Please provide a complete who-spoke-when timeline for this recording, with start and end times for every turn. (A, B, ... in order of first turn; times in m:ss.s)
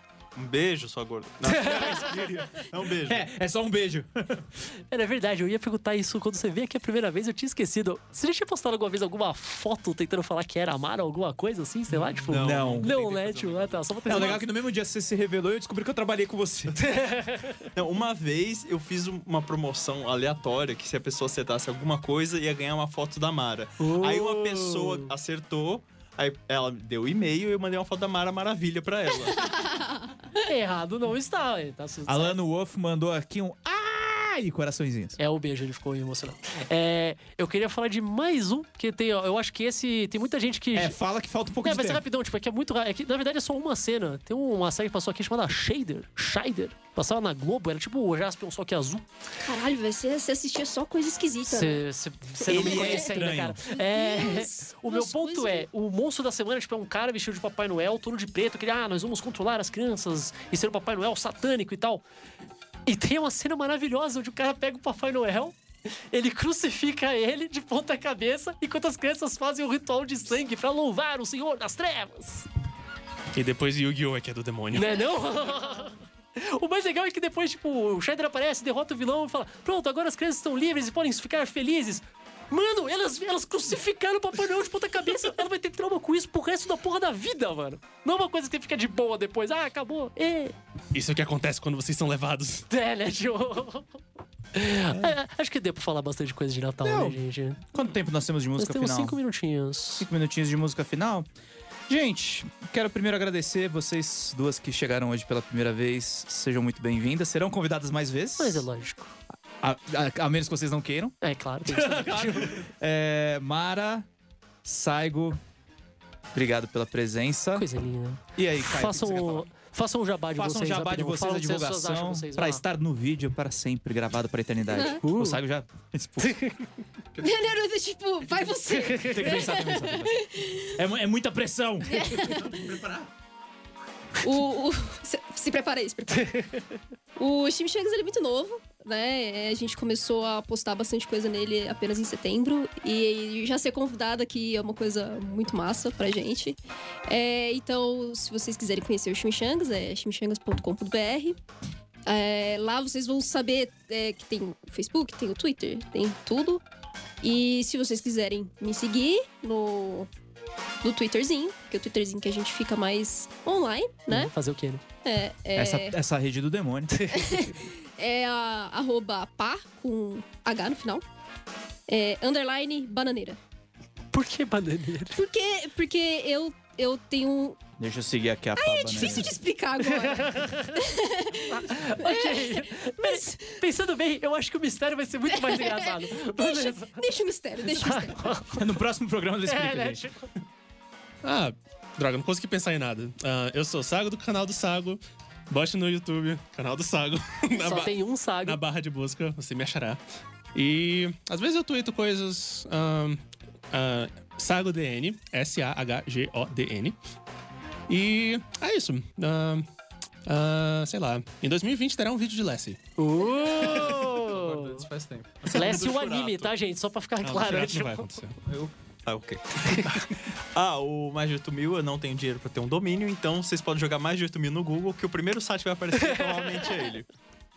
0:00.4-0:03.2 A
0:01.4-0:02.1 B
0:01.6-0:04.5 C
0:04.9-0:14.4 B
0:12.2-0:14.4 A
0:12.3-0:12.9 C
0:14.1-0:16.8 C
0:16.8-0:17.7 B
0:17.8-0:29.7 A
0:23.8-0:25.1 B
0:29.7-0:30.1 D
0:30.4-0:32.4 B
0:32.1-0:35.2 C
0:35.2-0:41.0 B
0:40.7-0:42.0 C
0:41.6-0:49.1 B
0:49.4-0:51.8 D
0:51.4-1:02.0 B
0:52.4-0:53.1 D
0:52.5-0:53.6 C
0:53.7-0:55.7 D
1:02.9-1:05.6 B
1:06.1-1:12.5 B
1:13.3-1:15.0 E
1:14.7-1:30.6 B
1:30.9-1:32.7 E
1:32.7-1:34.0 B
1:34.5-1:37.6 B
1:36.8-1:39.2 C
1:38.6-1:40.1 B
1:40.0-1:41.3 C
1:41.9-1:48.7 C
1:48.4-1:49.2 B
1:49.6-1:54.1 C
1:51.2-1:52.7 B
1:54.6-1:55.4 C
1:56.3-1:57.7 C
1:57.6-2:02.6 B
1:58.3-1:59.4 C
2:00.4-2:06.4 C
2:04.7-2:05.0 D
2:04.8-2:05.4 B
2:06.2-2:06.7 B
2:07.2-2:10.7 D
2:08.7-2:09.5 B
2:09.1-2:13.1 C
2:11.8-2:12.8 D
2:14.2-2:16.4 D
2:16.1-2:16.7 B
2:17.2-2:31.4 D
2:32.1-2:36.6 D
2:37.2-2:40.1 D
2:40.8-2:44.3 D
2:44.1-2:44.8 B
2:45.0-2:46.0 D
2:45.6-2:46.9 C
2:46.9-2:47.5 B
2:47.1-2:51.0 D
2:51.9-2:53.4 D
2:54.1-2:55.2 B
2:55.1-2:57.6 D
2:57.8-2:59.4 C
2:58.6-3:03.6 D
2:59.8-3:07.0 B
3:05.3-3:08.4 D
3:07.6-3:08.6 B
3:08.6-3:10.0 C
3:09.4-3:10.3 B
3:11.2-3:20.0 E
3:17.6-3:18.6 B
3:20.5-3:23.2 E
3:23.7-3:27.0 E
3:27.9-3:29.7 E
3:30.3-3:32.8 E
3:33.0-3:34.8 B
3:33.6-3:36.5 A
3:33.6-3:34.0 E
3:35.5-3:38.1 B
3:37.3-3:38.4 E
3:38.4-3:47.1 A
3:46.2-3:46.5 B